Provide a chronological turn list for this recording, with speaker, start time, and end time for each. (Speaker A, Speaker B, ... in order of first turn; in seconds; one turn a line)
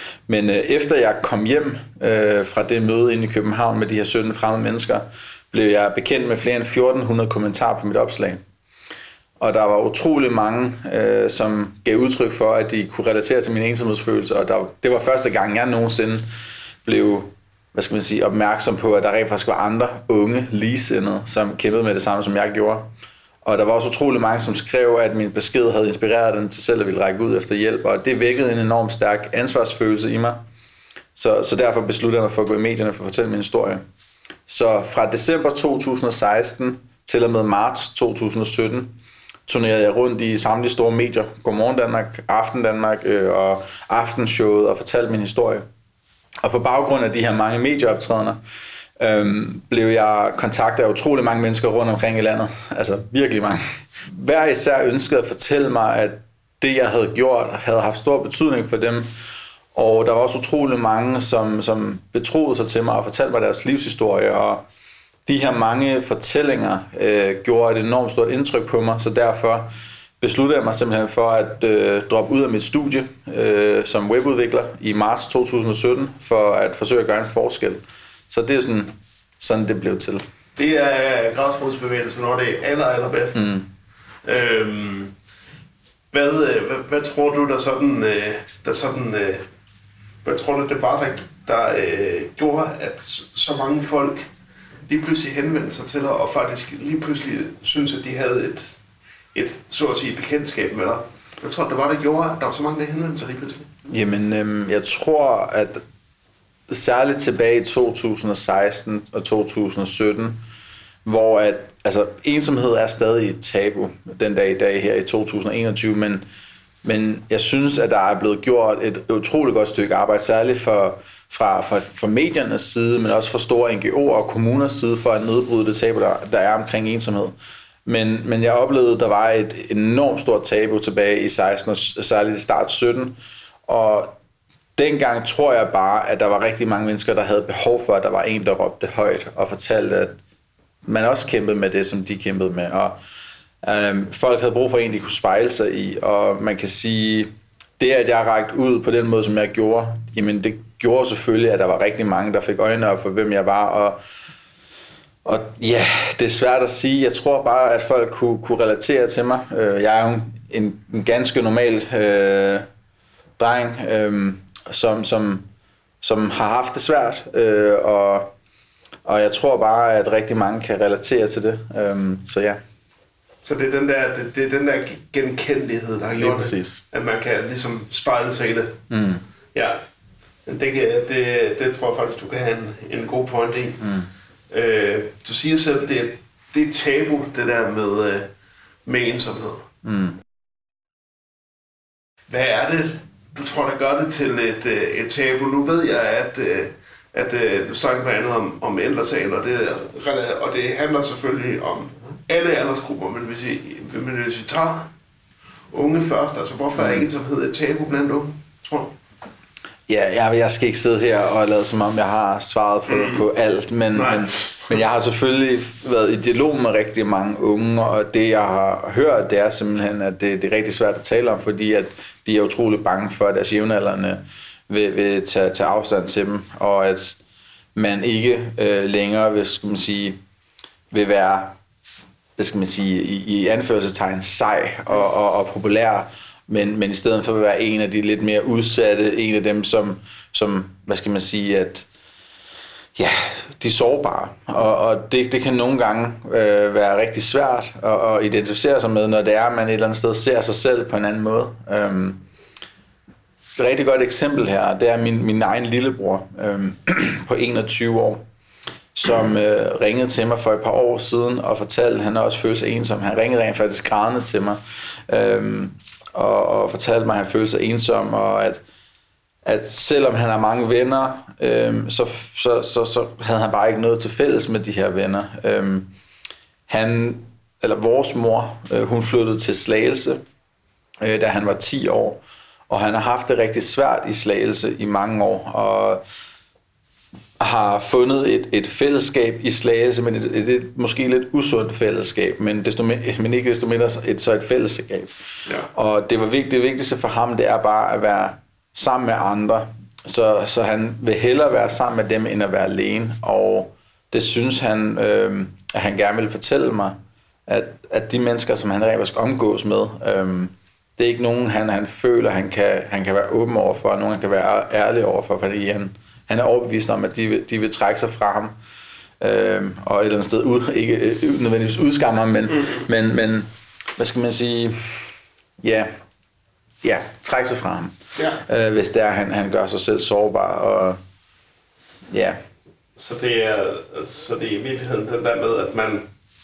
Speaker A: 0.3-8.4
Speaker A: 9.4-16.2
Speaker A: 16.8-22.9
Speaker A: 23.4-30.4
Speaker A: 31.1-33.8
Speaker A: 34.5-45.6
Speaker A: 46.4-48.4
Speaker A: 49.0-59.1
Speaker A: 59.7-64.6
Speaker A: 65.2-80.2
Speaker B: 80.6-83.5
Speaker A: 83.3-83.7
Speaker B: 84.2-85.1
Speaker B: 86.1-89.4
Speaker B: 90.2-94.2
Speaker B: 94.9-98.7
Speaker B: 99.3-103.7
Speaker A: 103.8-105.8
Speaker A: 106.7-110.4
Speaker A: 111.0-116.2
Speaker A: 116.8-127.3
Speaker A: 127.8-134.1
Speaker A: 134.8-140.2
Speaker A: 140.8-143.0
Speaker A: 143.6-154.0
Speaker A: 155.2-162.7
Speaker A: 163.4-165.4
Speaker A: 166.0-168.3
Speaker A: 169.0-172.6
Speaker B: 173.4-178.8
Speaker A: 176.2-176.8
Speaker A: 178.9-179.2
Speaker B: 179.5-179.8
Speaker B: 180.4-183.9
Speaker B: 184.5-188.3
Speaker B: 188.8-189.7
Speaker A: 189.8-190.2
Speaker B: 192.3-204.9
Speaker B: 205.7-208.9
Speaker A: 206.8-207.0
Speaker A: 209.9-227.2
Speaker B: 212.9-213.2
Speaker B: 213.9-214.7
Speaker A: 227.7-230.2
Speaker A: 230.9-231.5
Speaker A: 232.4-241.9
Speaker A: 242.9-252.2
Speaker A: 253.6-258.2
Speaker A: 258.9-268.6
Speaker A: 269.4-275.9
Speaker A: 276.7-280.2
Speaker A: 281.0-286.0
Speaker A: 287.4-295.1
Speaker A: 295.7-318.5
Speaker A: 319.2-324.9
Speaker A: 325.6-325.9
Speaker A: 326.8-331.0
Speaker A: 332.1-332.4
Speaker B: 332.9-336.1